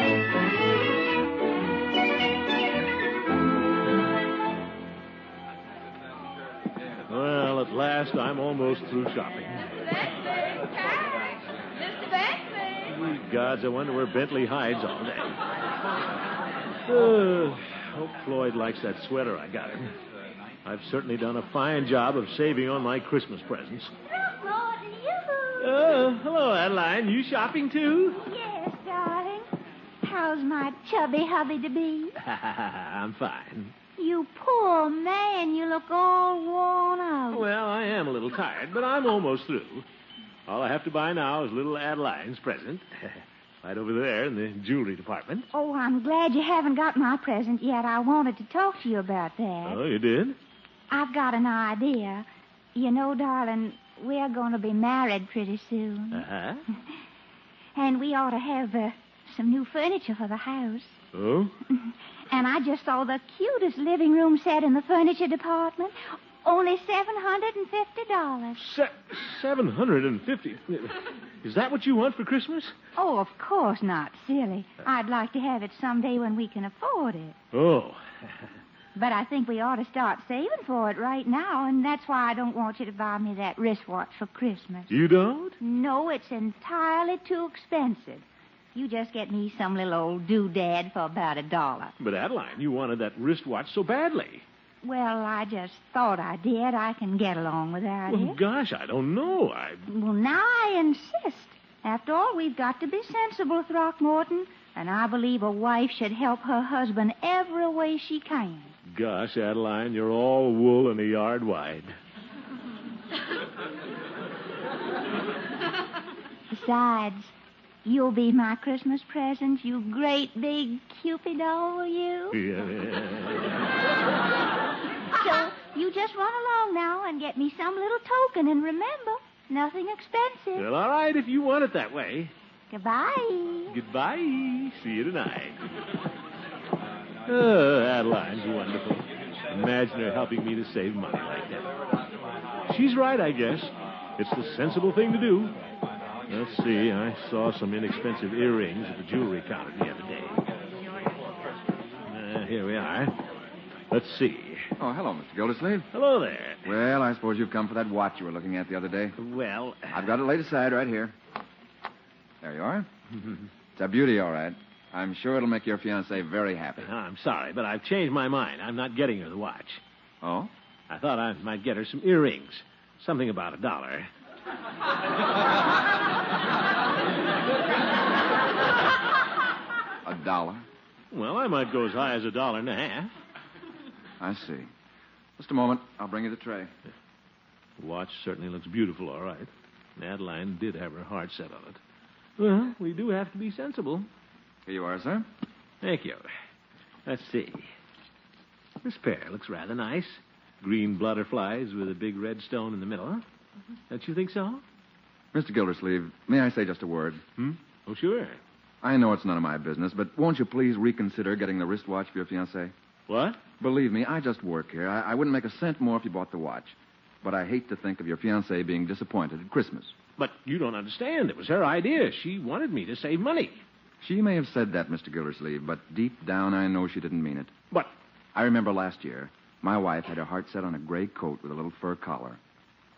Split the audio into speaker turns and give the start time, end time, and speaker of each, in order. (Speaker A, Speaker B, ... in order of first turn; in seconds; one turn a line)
Speaker A: 7.1-9.7
Speaker B: 9.8-12.9
Speaker A: 12.9-15.4
Speaker A: 16.9-19.9
Speaker A: 20.6-23.9
Speaker C: 24.1-25.9
Speaker A: 25.6-28.2
Speaker C: 28.2-29.4
Speaker C: 30.0-32.1
Speaker A: 32.2-33.7
Speaker C: 34.0-37.5
Speaker A: 37.3-39.9
Speaker A: 40.5-45.5
Speaker C: 45.5-49.8
Speaker A: 49.6-50.4
Speaker C: 50.9-56.2
Speaker A: 56.1-56.6
Speaker C: 57.7-61.0
Speaker A: 61.1-61.5
Speaker C: 61.7-68.6
Speaker A: 68.6-72.7
Speaker C: 73.0-77.3
Speaker A: 77.5-78.3
Speaker C: 78.9-84.9
Speaker A: 84.9-85.6
Speaker C: 85.6-91.9
Speaker A: 92.0-94.4
Speaker C: 94.8-98.4
Speaker A: 98.1-99.8
Speaker C: 99.9-108.7
Speaker A: 108.8-112.0
Speaker C: 116.5-117.3
Speaker C: 117.8-122.4
Speaker A: 122.3-123.5
Speaker C: 125.1-130.7
Speaker A: 130.6-132.3
Speaker C: 132.7-133.8
Speaker A: 133.7-135.6
Speaker A: 137.3-141.7
Speaker A: 142.7-145.5
Speaker A: 146.3-150.4
Speaker A: 152.1-153.1
Speaker A: 153.9-154.7
Speaker D: 154.8-155.9
Speaker A: 155.9-156.7
Speaker D: 156.6-159.2
Speaker A: 159.2-160.2
Speaker D: 159.9-161.1
Speaker D: 162.4-162.9
Speaker D: 163.7-166.9
Speaker A: 166.8-169.8
Speaker D: 170.2-170.5
Speaker A: 170.9-174.1
Speaker D: 180.0-180.6
Speaker A: 181.1-183.1
Speaker D: 184.2-184.7
Speaker D: 185.4-186.7
Speaker A: 187.8-191.8
Speaker A: 192.4-194.1
Speaker D: 194.7-195.2
Speaker A: 195.8-196.3
Speaker A: 197.1-197.7
Speaker A: 198.8-203.2
Speaker A: 203.9-204.6
Speaker D: 205.3-207.2
Speaker A: 207.4-208.4
Speaker D: 208.8-212.7
Speaker A: 213.1-213.4
Speaker D: 213.6-219.9
Speaker A: 220.2-223.6
Speaker D: 224.0-227.5
Speaker D: 228.3-232.4